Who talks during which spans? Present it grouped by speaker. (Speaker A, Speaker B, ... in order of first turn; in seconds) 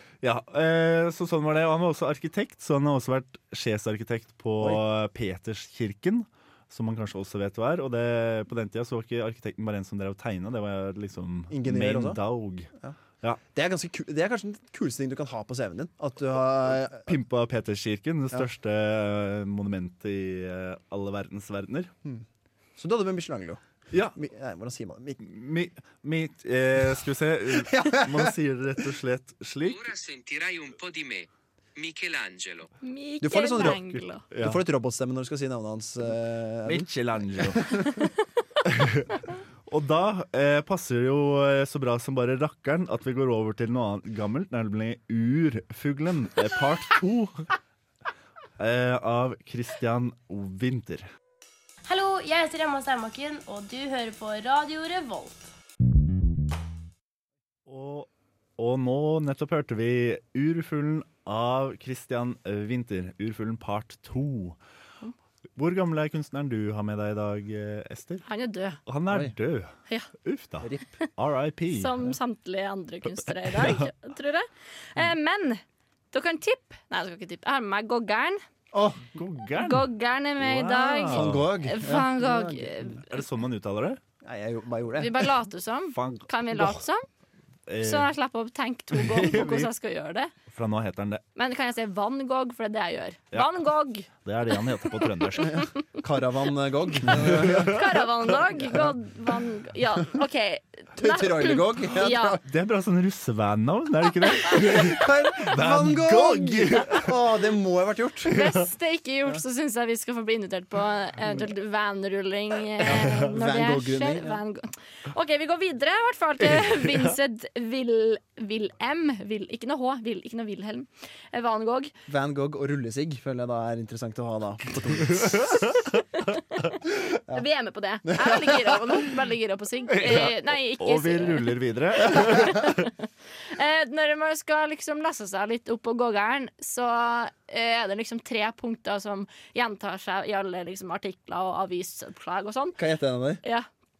Speaker A: 0.2-12.7, 17.0-21.9, 25.2-29.8, 34.3-34.6, 36.6-37.8, 38.6-47.5, 48.6-51.1, 57.7-64.6, 65.5-68.2, 68.8-69.7, 70.2-72.1, 73.2-73.9, 79.1-81.5, 83.1-84.0, 85.9-86.8, 87.7-88.1, 88.9-89.7, 90.5-91.2, 93.3-93.6, 94.1-95.7, 97.1-98.0, 102.4-107.1, 116.5-116.9, 129.9-132.9
Speaker B: 11.5-12.2, 13.5-17.1, 22.8-23.6, 24.1-25.2, 27.6-28.3, 33.2-33.8, 34.3-36.9, 37.5-38.0, 69.1-69.3, 70.6-70.9, 78.7-79.1, 81.1-82.9, 84.2-85.2, 96.0-97.8, 101.0-102.4, 104.6-108.4, 112.8-114.4, 122.1-125.6, 128.1-128.5, 142.8-143.4
Speaker C: 29.6-32.7
Speaker D: 32.8-34.2, 68.2-68.8, 71.7-75.6, 76.1-78.4, 79.6-83.1, 85.0-87.0, 87.8-90.3, 91.3-94.1, 97.7-102.3, 108.3-121.9, 126.2-126.6, 127.3-132.9, 133.5-142.8
Speaker E: 51.9-55.5